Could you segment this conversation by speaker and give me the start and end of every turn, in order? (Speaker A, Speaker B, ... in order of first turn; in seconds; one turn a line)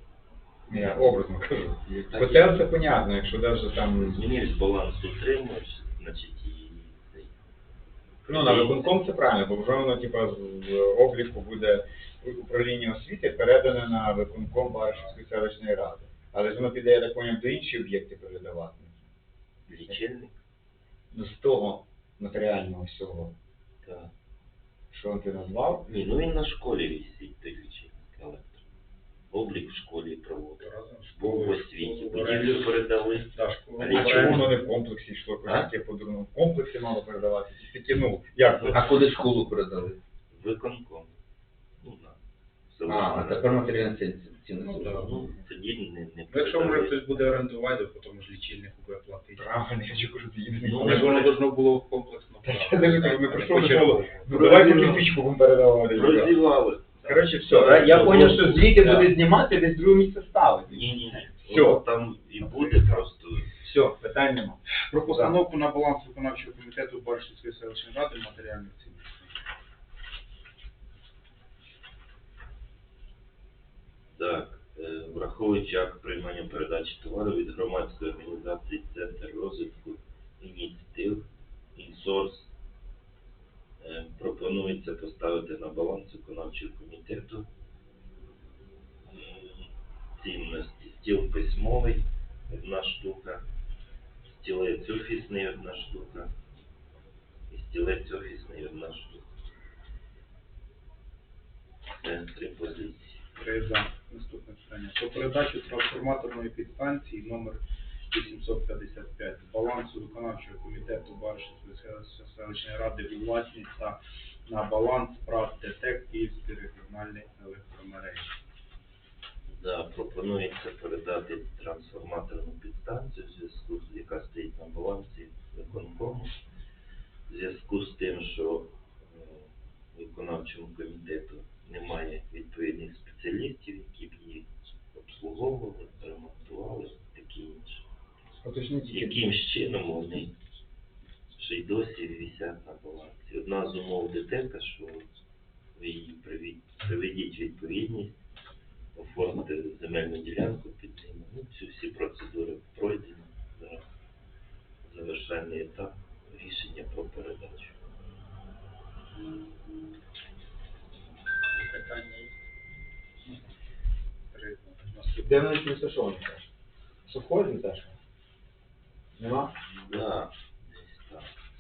Speaker A: 0.7-4.2
Speaker B: 0.7-1.0
Speaker B: 1.9-2.6
Speaker B: 3.9-7.3
Speaker B: 8.2-8.9
Speaker A: 8.3-19.0
Speaker B: 19.7-20.4
Speaker A: 21.1-23.3
Speaker B: 23.8-24.1
Speaker A: 24.9-26.2
Speaker B: 25.6-28.6
Speaker B: 29.3-34.5
Speaker C: 30.6-32.8
Speaker C: 33.3-34.5
Speaker A: 33.9-39.2
Speaker B: 38.4-39.1
Speaker D: 38.7-40.0
Speaker B: 40.3-41.1
Speaker B: 41.8-42.2
Speaker B: 42.7-43.7
Speaker D: 42.9-45.2
Speaker C: 44.6-45.1
Speaker B: 44.9-47.2
Speaker C: 46.3-49.6
Speaker A: 49.3-51.2
Speaker B: 50.6-51.3
Speaker C: 50.6-54.8
Speaker A: 52.4-56.4
Speaker B: 54.3-55.1
Speaker B: 55.9-59.1
Speaker A: 57.0-61.9
Speaker C: 57.1-59.1
Speaker B: 60.7-63.6
Speaker A: 63.6-65.3
Speaker C: 64.9-69.3
Speaker B: 74.1-82.5
Speaker B: 83.8-87.5
Speaker B: 89.1-93.4
Speaker B: 94.2-96.3
Speaker B: 97.5-99.3
Speaker B: 101.9-103.2
Speaker C: 103.3-107.6
Speaker C: 108.1-118.3
Speaker B: 119.5-126.3
Speaker B: 127.3-137.8
Speaker A: 138.4-139.3
Speaker B: 138.9-140.3
Speaker B: 141.4-145.1
Speaker B: 145.8-148.2
Speaker B: 148.9-153.8
Speaker B: 154.8-157.7
Speaker C: 161.5-162.4
Speaker C: 164.3-165.5
Speaker A: 165.2-166.4
Speaker A: 167.1-167.9
Speaker A: 169.2-169.5
Speaker B: 169.7-171.3